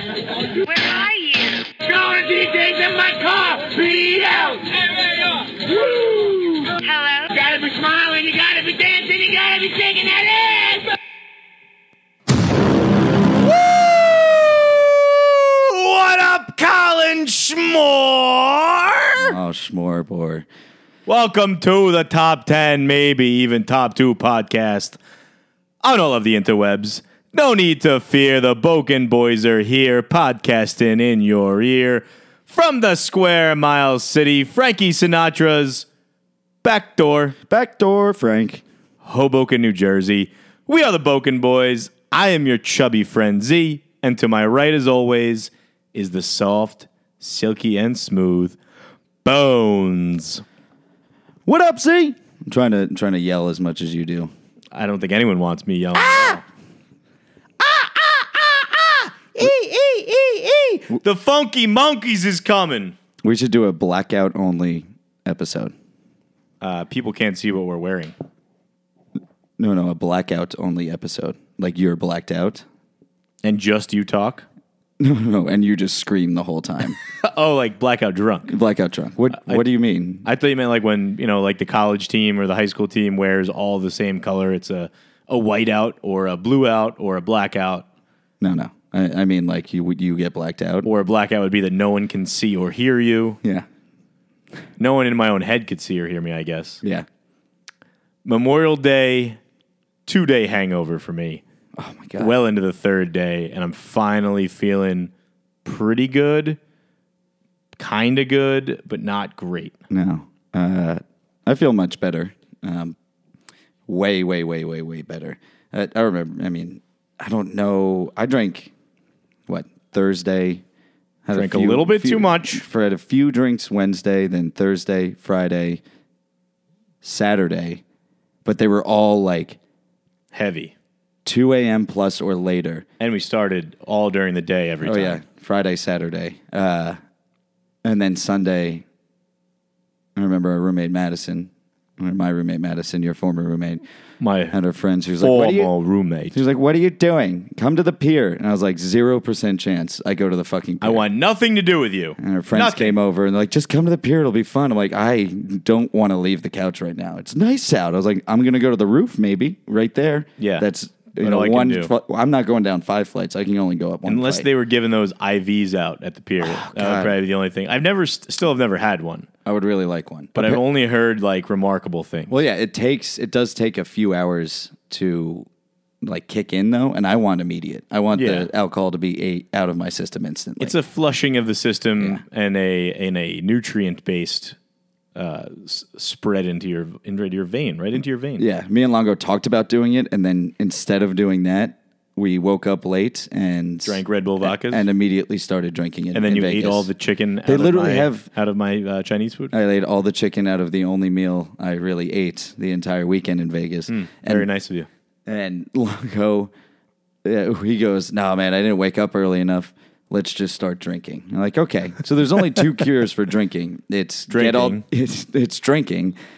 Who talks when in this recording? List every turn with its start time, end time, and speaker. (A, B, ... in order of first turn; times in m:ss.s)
0:00.5-0:10.9 A
0:13.4-0:19.3 B
0:19.2-0:20.4 C
0:21.0-0:25.0 B
0:25.8-0:35.9 B
0:36.6-0:37.4 B
0:37.5-0:38.6 C
0:39.0-0:48.6 B
0:49.2-0:50.4 B
0:51.4-0:54.3 C
0:54.7-0:56.4 B
0:56.0-0:56.4 C
0:57.6-0:58.4 C
0:59.3-0:59.8 C
1:00.6-1:01.0 C
1:00.9-1:03.0 B
1:03.2-1:05.7 C
1:06.6-1:08.1 B
1:09.6-1:12.6 C
1:13.4-1:14.4 B
1:15.0-1:17.0 C
1:17.0-1:18.6 B
1:18.5-1:20.2 C
1:19.3-1:19.6 B
1:20.2-1:27.8 B
1:28.4-1:30.9 C
1:30.8-1:33.4 B
1:34.8-1:36.8 B
1:38.2-1:39.4 B
1:40.0-1:41.4 B
1:41.8-1:42.3 C
1:42.2-1:45.1 B
1:45.6-1:46.6 B
1:47.8-1:49.7 B
1:49.9-1:53.0 C
1:53.9-1:58.7 C
1:59.5-2:00.6 C
2:01.2-2:05.8 C
2:01.3-2:02.6 B
2:07.0-2:07.8 C
2:08.4-2:09.6 C
2:10.3-2:10.7 B
2:11.2-2:12.8 C
2:13.0-2:15.2 B
2:14.8-2:17.0 C
2:17.8-2:18.8 C
2:20.1-2:23.8 C
2:24.2-2:24.6 B
2:24.5-2:25.7 C
2:25.2-2:26.4 B
2:26.3-2:31.0 C
2:30.8-2:33.0 B
2:32.2-2:44.5 C
2:40.4-2:41.9 B
2:44.0-2:49.3 B
2:46.4-2:47.1 C
2:49.4-2:50.6 C
2:50.3-2:52.4 B
2:52.3-2:55.5 C
2:56.0-3:00.8 C
2:58.1-2:58.5 B
3:00.6-3:04.6 B
3:05.1-3:08.4 B
3:08.4-3:16.9 C
3:13.8-3:14.9 B
3:16.1-3:19.5 B
3:17.4-3:18.3 C
3:19.5-3:24.5 C
3:23.9-3:24.9 B
3:25.2-3:26.5 C
3:27.2-3:36.2 C
3:34.3-3:34.8 B